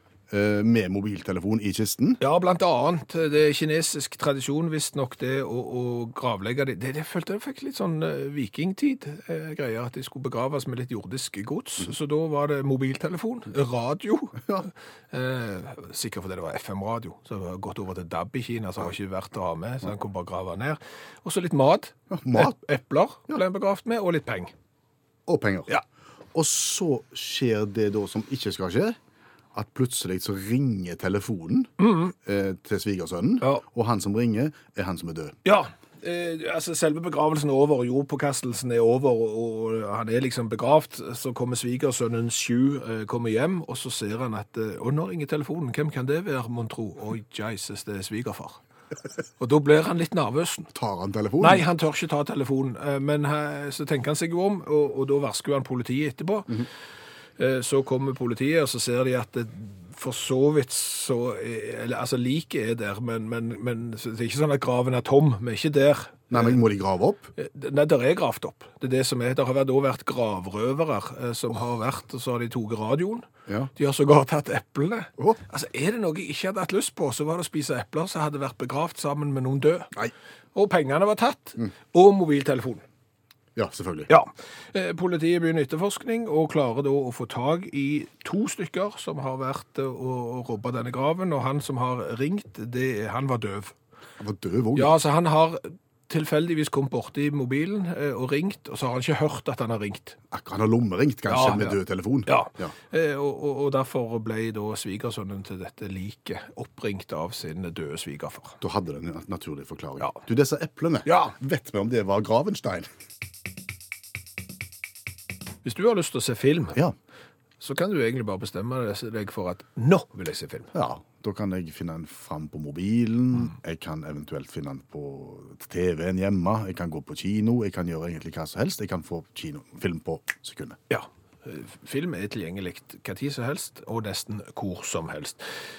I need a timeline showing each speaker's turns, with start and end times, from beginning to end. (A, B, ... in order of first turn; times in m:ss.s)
0:00.3-0:02.2 A
0:02.2-0:24.5 B
0:22.1-0:22.5 A
0:25.3-0:25.7 A
0:26.3-0:29.0 A
0:29.5-0:31.7 A
0:31.8-0:32.1 B
0:32.2-0:35.4 A
0:35.4-0:48.6 B
0:49.4-0:50.7 B
0:50.7-0:51.6 A
0:51.4-0:56.5 B
0:57.4-1:06.6 B
1:06.3-1:07.3 A
1:07.4-1:19.9 B
1:20.5-1:22.8 B
1:23.6-1:24.1 A
1:24.1-1:33.7 B
1:34.2-1:34.9 A
1:34.8-1:40.2 B
1:40.3-1:42.7 A
1:41.3-1:48.6 B
1:48.6-1:52.9 A
1:51.0-1:51.3 B
1:55.6-1:56.8 B
1:57.6-2:00.7 B
2:00.7-2:10.8 A
2:10.9-2:15.5 B